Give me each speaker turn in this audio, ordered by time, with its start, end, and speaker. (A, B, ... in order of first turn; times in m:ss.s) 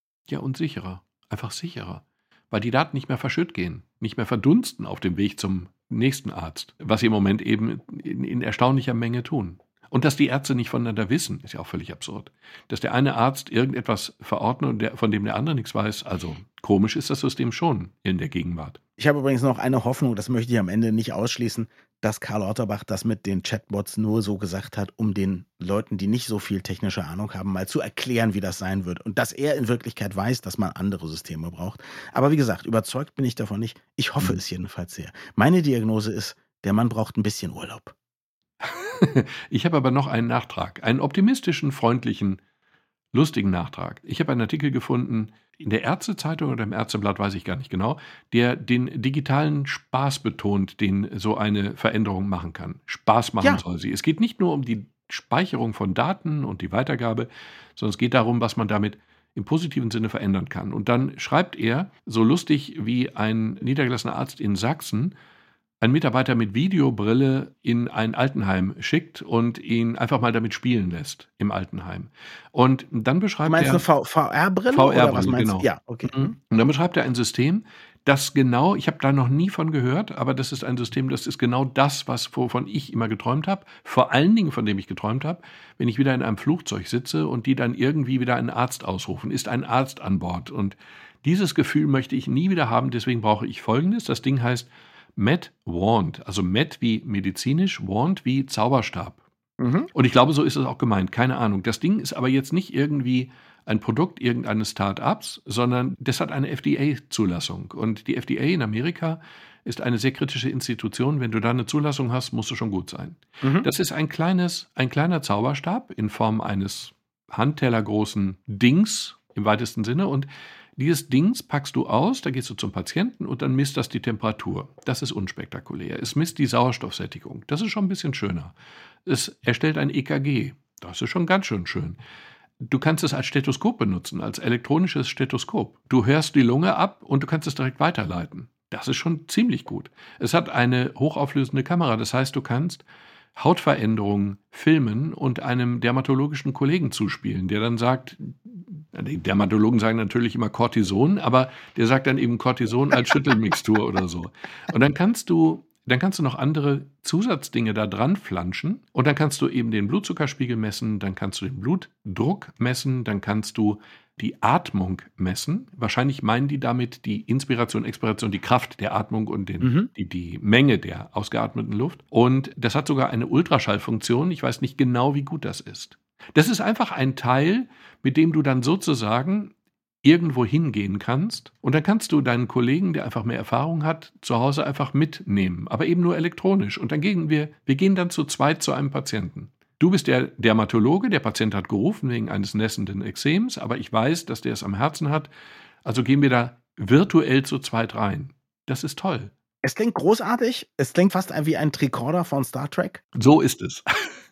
0:00.3-0:18.8 A
0:19.0-0:37.9 B
0:38.6-0:42.4 A
0:43.1-1:05.1 A
1:05.8-1:13.8 A
1:13.5-1:16.3 B
1:14.7-1:39.2 A
1:39.6-1:39.9 B
1:39.9-2:12.0 A
1:53.4-1:53.7 B
2:12.6-2:22.8 A
2:23.4-3:15.3 A
2:49.6-2:49.9 B
3:15.8-3:19.3 A
3:19.6-3:23.0 B
3:23.1-3:24.1 A